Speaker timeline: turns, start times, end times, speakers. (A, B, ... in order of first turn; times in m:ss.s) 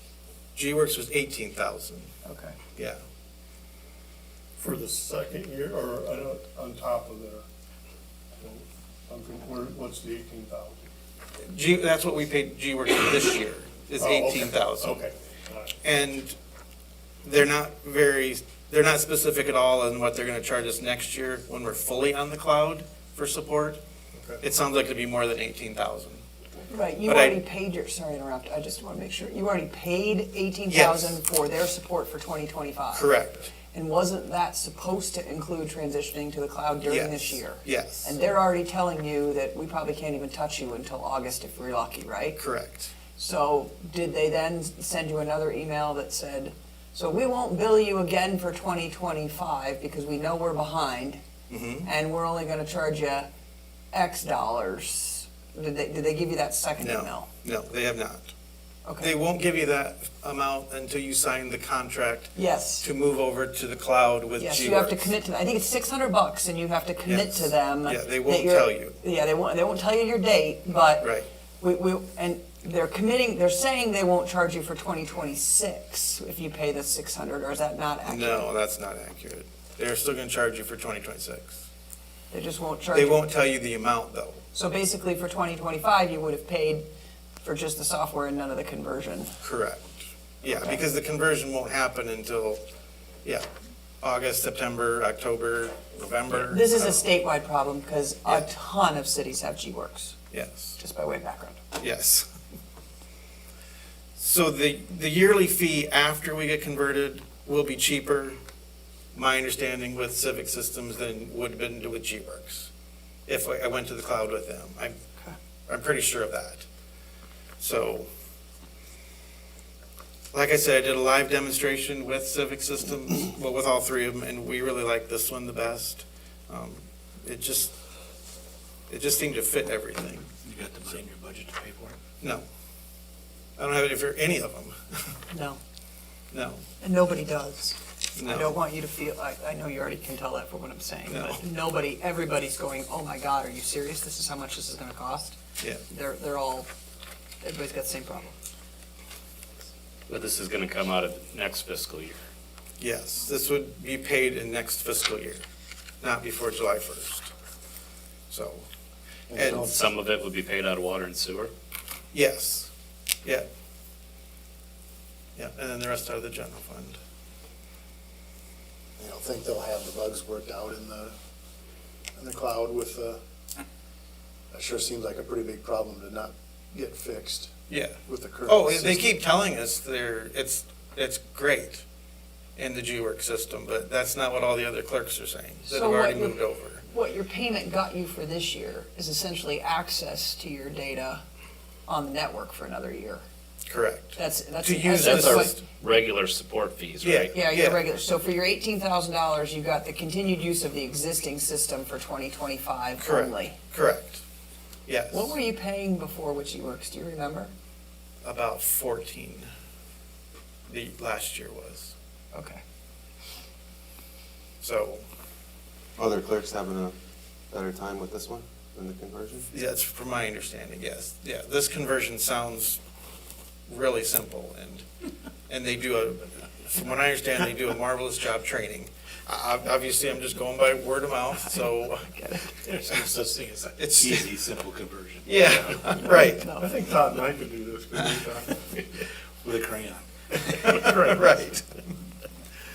0:00.5-0:02.1 A
0:02.2-0:02.6 B
0:04.6-0:07.4 C
0:08.4-0:10.8 C
0:11.4-0:15.0 A
0:14.0-0:15.8 C
0:15.8-0:16.4 A
0:17.2-0:23.8 A
0:24.1-0:24.4 C
0:24.4-0:26.2 A
0:26.7-0:42.4 B
0:27.0-0:27.4 A
0:30.7-0:31.2 A
0:32.9-0:33.5 A
0:36.8-0:38.2 A
0:42.3-0:42.9 A
0:43.1-0:51.2 B
0:51.5-0:51.9 A
0:51.8-0:53.3 B
0:53.9-0:57.3 B
0:56.8-0:58.3 A
0:58.8-0:59.1 B
0:59.0-1:05.1 A
1:02.3-1:02.9 B
1:04.4-1:18.4 B
1:07.1-1:09.0 A
1:18.0-1:21.6 A
1:22.3-1:23.3 B
1:22.9-1:24.4 A
1:24.5-1:26.9 B
1:27.4-1:29.3 B
1:29.4-1:32.6 A
1:30.4-1:30.8 B
1:34.0-1:37.0 A
1:36.3-1:40.2 B
1:40.3-1:40.8 A
1:40.8-1:41.6 B
1:41.8-1:42.3 A
1:44.2-1:48.4 A
1:49.1-1:52.7 A
1:53.3-1:55.0 A
1:55.7-1:56.6 A
1:57.6-1:58.1 A
2:00.3-2:07.7 A
2:08.9-2:10.3 A
2:10.4-2:12.0 D
2:13.6-2:15.2 A
2:15.3-2:15.6 B
2:16.3-2:16.6 A
2:16.8-2:26.7 B
2:18.2-2:18.6 A
2:21.1-2:21.4 A
2:27.4-2:28.4 B
2:30.1-2:32.2 E
2:32.8-2:35.4 A
2:36.0-2:37.3 A
2:38.3-2:38.7 A
2:39.3-2:39.8 F
2:39.4-2:39.7 A
2:39.4-2:41.5 E
2:42.1-2:42.7 A
2:45.4-2:47.0 A
2:49.0-2:51.2 F
2:52.2-2:53.2 F
2:54.5-2:59.2 F
2:57.7-3:01.8 A
3:02.6-3:06.8 A
3:05.6-3:11.2 B
3:11.8-3:13.2 B
3:13.7-3:15.6 A
3:14.2-3:15.6 B
3:15.0-3:17.3 E
3:17.0-3:17.8 A
3:17.3-3:23.6 B
3:23.0-3:24.2 A
3:24.9-3:25.3 A
3:25.1-3:27.5 B
3:28.2-3:29.5 A
3:30.7-3:31.9 A
3:32.3-3:32.6 B
3:34.6-3:35.0 A
3:36.0-3:37.0 G
3:37.5-3:39.5 G
3:39.5-3:42.8 A
3:43.7-3:44.8 A
3:45.5-3:52.1 A
3:51.4-3:52.6 B
3:52.6-3:56.0 D
3:53.7-3:54.3 A
3:55.2-3:56.5 A
3:55.9-3:56.7 B
3:56.5-3:58.6 C
3:59.4-4:01.0 D
4:00.6-4:01.6 A
4:00.7-4:01.1 C